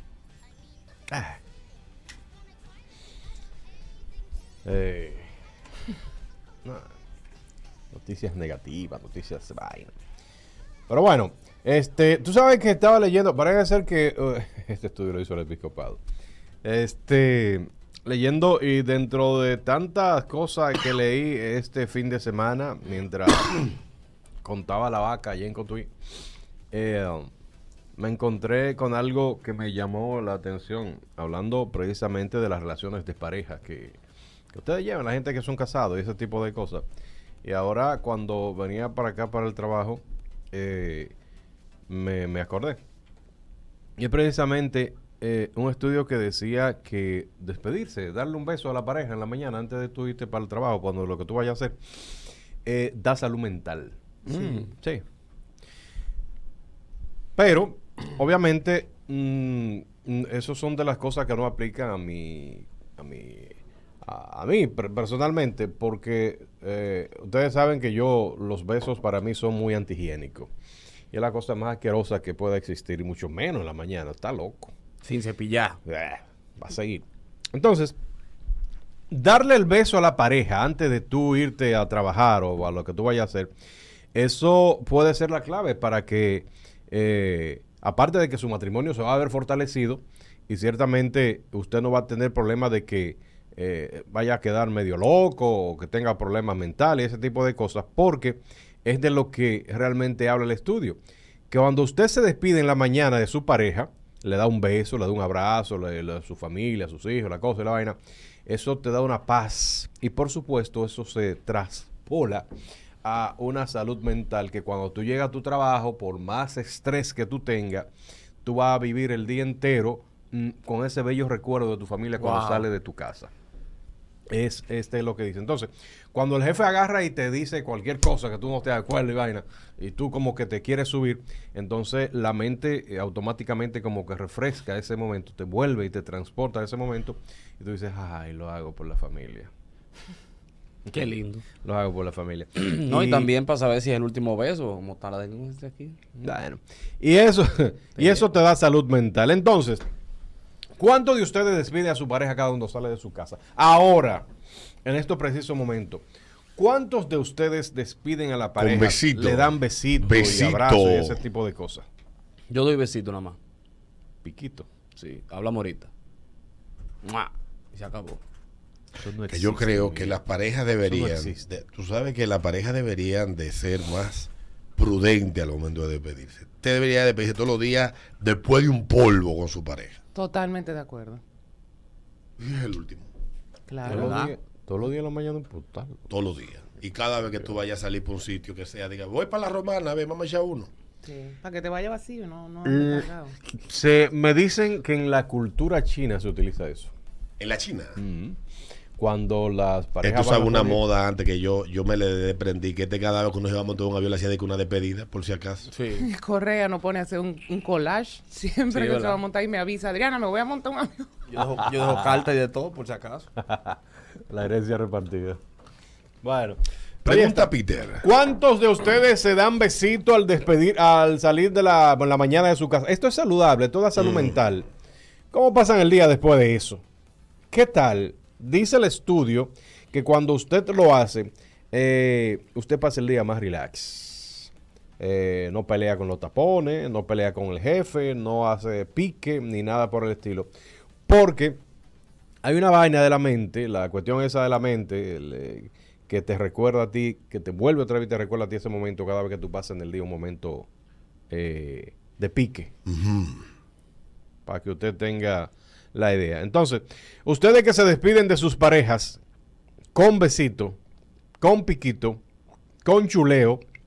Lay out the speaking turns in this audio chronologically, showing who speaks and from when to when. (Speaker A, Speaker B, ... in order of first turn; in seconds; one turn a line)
Speaker A: 1.1-1.4
Speaker A: 4.6-5.3
Speaker A: 6.6-6.9
Speaker A: 7.9-9.9
Speaker A: 10.9-16.0
Speaker A: 16.6-23.7
Speaker A: 24.4-25.9
Speaker A: 26.7-27.3
Speaker A: 27.9-34.0
Speaker A: 34.5-36.8
Speaker A: 37.4-41.1
Speaker A: 41.9-42.8
Speaker A: 44.0-52.1
Speaker A: 52.6-55.0
Speaker B: 54.3-54.7
Speaker A: 57.4-70.5
Speaker A: 71.1-74.7
Speaker B: 75.0-75.8
Speaker A: 75.8-77.9
Speaker A: 79.1-83.5
Speaker A: 84.1-101.0
Speaker A: 101.5-112.5
Speaker A: 113.0-117.9
Speaker A: 118.4-123.3
Speaker B: 122.2-122.7
Speaker A: 124.3-139.5
Speaker B: 140.9-141.4
Speaker A: 141.6-143.3
Speaker B: 142.6-146.0
Speaker A: 146.2-149.8
Speaker B: 148.0-148.3
Speaker A: 150.8-154.2
Speaker A: 154.8-156.0
Speaker A: 156.6-161.8
Speaker C: 158.6-161.2
Speaker B: 162.5-163.4
Speaker A: 164.2-164.7
Speaker B: 164.9-165.9
Speaker B: 167.0-168.2
Speaker A: 168.9-170.2
Speaker C: 169.3-180.0
Speaker A: 170.8-171.4
Speaker D: 180.1-181.2
Speaker C: 182.4-183.1
Speaker D: 183.7-184.2
Speaker A: 183.8-186.1
Speaker B: 183.9-184.3
Speaker C: 186.1-190.7
Speaker D: 191.0-193.3
Speaker A: 192.7-196.9
Speaker C: 197.4-197.9
Speaker A: 197.9-198.4
Speaker A: 199.0-200.8
Speaker C: 200.0-205.7
Speaker B: 205.7-206.1
Speaker D: 206.0-211.1
Speaker B: 208.7-209.2
Speaker B: 211.3-213.3
Speaker A: 211.6-212.2
Speaker A: 213.4-213.8
Speaker A: 214.3-215.4
Speaker A: 216.2-224.7
Speaker C: 217.0-218.0
Speaker C: 224.0-224.3
Speaker A: 225.3-226.8
Speaker A: 227.5-240.5
Speaker A: 241.1-241.6
Speaker A: 242.4-250.7
Speaker A: 251.3-252.7
Speaker C: 252.8-253.4
Speaker A: 254.4-259.2
Speaker A: 259.9-260.8
Speaker A: 261.4-262.2
Speaker A: 262.8-263.6